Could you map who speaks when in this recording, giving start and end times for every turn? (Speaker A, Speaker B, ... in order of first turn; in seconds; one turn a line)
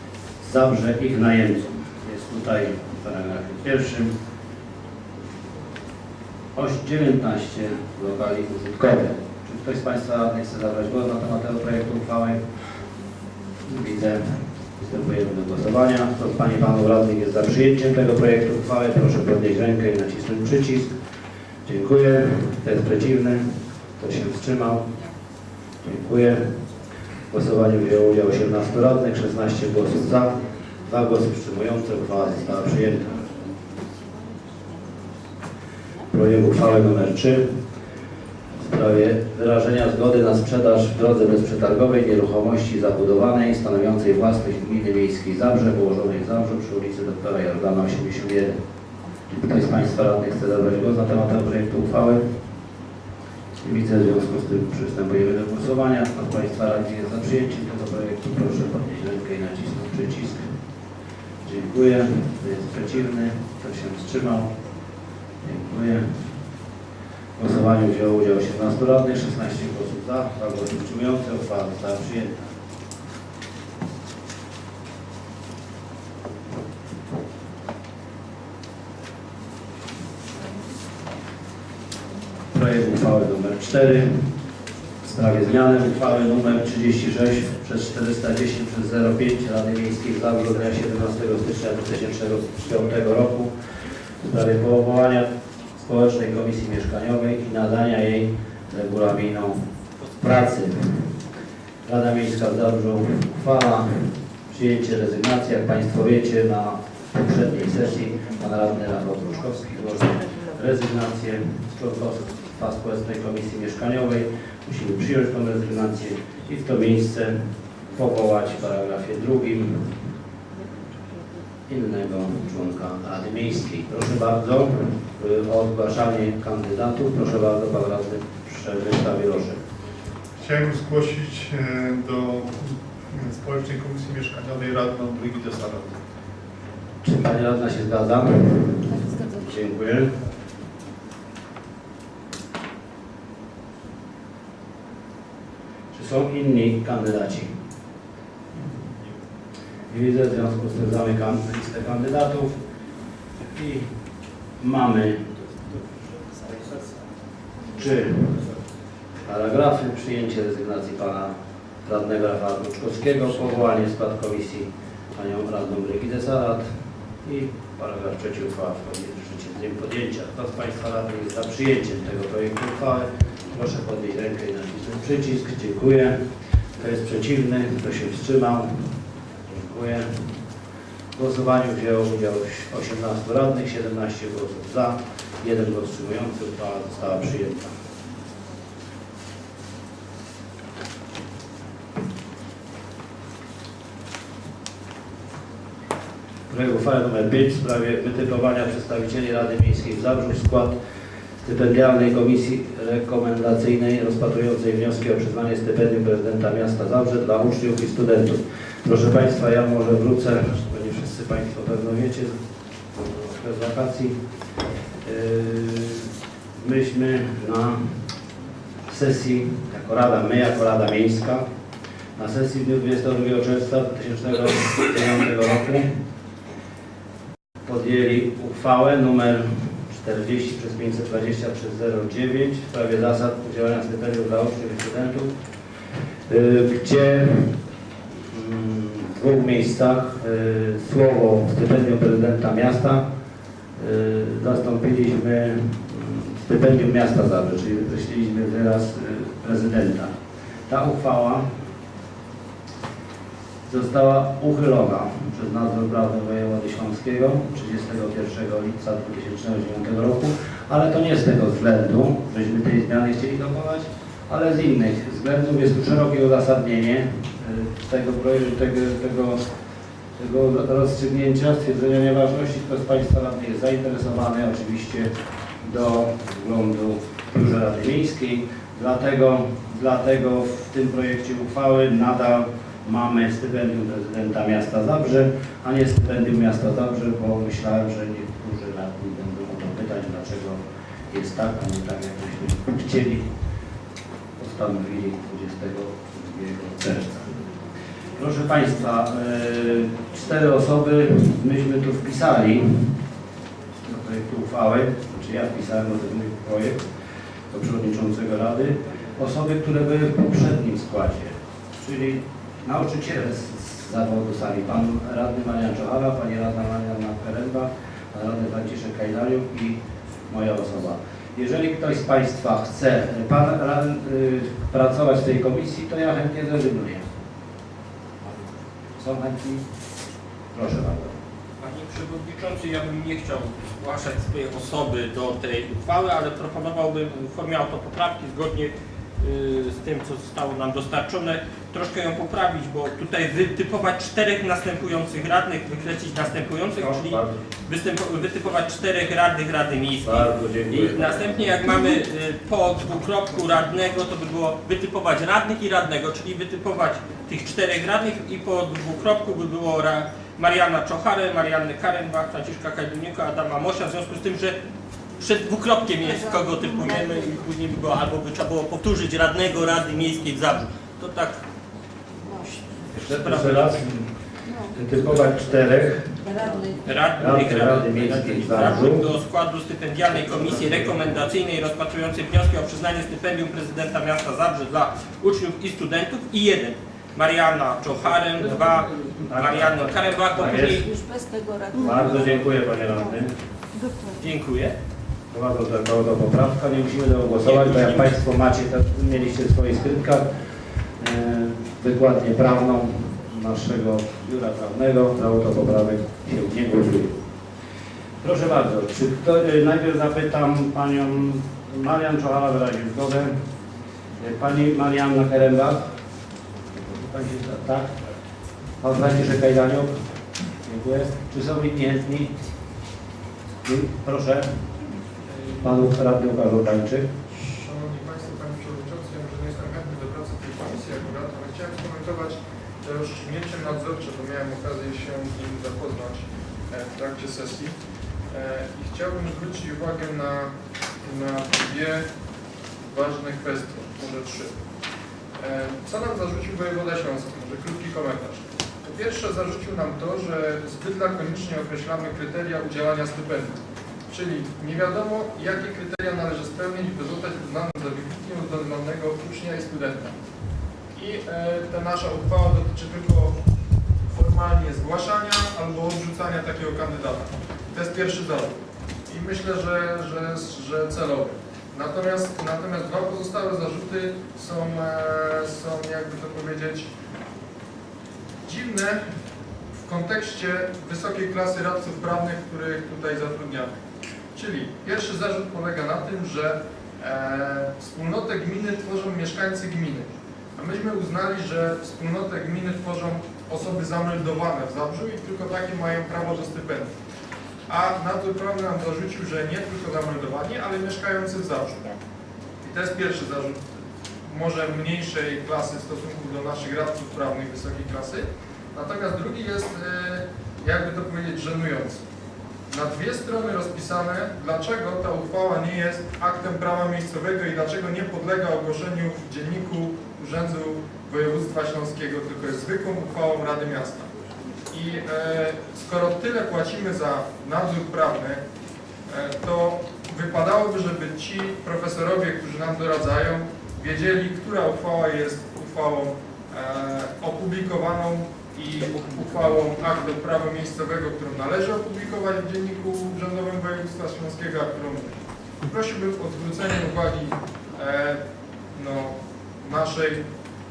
Speaker A: 0.4-4.1
Speaker A: 6.5-12.4
Speaker A: 13.7-20.9
Speaker A: 21.7-23.4
Speaker A: 24.0-24.9
Speaker A: 25.8-26.4
Speaker A: 27.3-33.4
Speaker A: 36.1-37.4
Speaker A: 38.6-48.6
Speaker A: 49.3-52.2
Speaker A: 53.6-60.5
Speaker A: 61.4-64.5
Speaker A: 65.4-66.2
Speaker A: 67.4-72.5
Speaker A: 82.5-84.3
Speaker A: 85.0-93.5
Speaker A: 94.2-95.3
Speaker A: 95.8-99.6
Speaker A: 100.2-101.1
Speaker A: 101.9-117.4
Speaker A: 117.9-120.0
Speaker A: 121.7-129.6
Speaker B: 130.4-136.0
Speaker A: 137.0-140.1
Speaker A: 145.9-147.5
Speaker A: 149.9-152.5
Speaker A: 153.4-153.9
Speaker A: 154.6-155.4
Speaker A: 156.5-156.8
Speaker A: 157.7-158.5
Speaker A: 159.2-161.3
Speaker A: 161.8-166.7
Speaker A: 167.2-176.2
Speaker A: 176.8-178.9
Speaker A: 179.5-180.4
Speaker A: 181.2-187.7
Speaker A: 196.5-200.8
Speaker A: 201.4-212.4
Speaker A: 212.9-214.2
Speaker A: 215.0-217.8
Speaker A: 218.9-221.4
Speaker A: 222.2-225.9
Speaker A: 227.6-235.3
Speaker A: 236.3-237.5
Speaker A: 238.1-243.1
Speaker A: 243.8-250.1
Speaker A: 250.7-251.5
Speaker A: 253.7-269.4
Speaker A: 270.2-275.1
Speaker A: 275.6-293.3
Speaker A: 294.4-297.4
Speaker A: 298.1-303.0
Speaker A: 303.8-306.8
Speaker A: 307.5-327.1
Speaker A: 329.0-329.6
Speaker A: 330.5-331.2
Speaker C: 331.6-364.6
Speaker A: 346.8-347.4
Speaker A: 350.0-351.5
Speaker C: 365.2-371.4
Speaker D: 366.1-367.4
Speaker C: 372.5-373.8
Speaker A: 372.9-374.1
Speaker A: 374.7-376.2
Speaker D: 376.2-376.8
Speaker C: 376.7-390.9
Speaker A: 377.2-379.1
Speaker A: 380.2-380.9
Speaker A: 388.4-388.6
Speaker A: 389.2-390.8
Speaker D: 390.9-392.6
Speaker A: 391.8-393.3
Speaker D: 393.8-394.1
Speaker C: 394.2-394.7
Speaker A: 395.3-400.3
Speaker C: 397.4-398.1
Speaker A: 401.0-407.1
Speaker A: 408.2-413.4
Speaker A: 414.2-415.9
Speaker A: 416.8-417.9
Speaker A: 418.8-419.9
Speaker A: 420.6-422.3
Speaker A: 423.6-424.5
Speaker E: 425.3-425.7
Speaker A: 425.6-427.1
Speaker E: 427.4-437.8
Speaker E: 438.3-442.1
Speaker E: 442.9-444.5
Speaker E: 445.4-460.1
Speaker E: 460.9-463.4
Speaker E: 464.1-476.9
Speaker E: 478.4-479.0
Speaker E: 479.8-483.7
Speaker E: 484.4-496.9
Speaker E: 497.7-501.9
Speaker E: 502.6-503.6
Speaker E: 504.3-512.0
Speaker E: 512.7-524.1
Speaker E: 524.7-528.4
Speaker E: 529.1-548.2
Speaker E: 548.7-550.2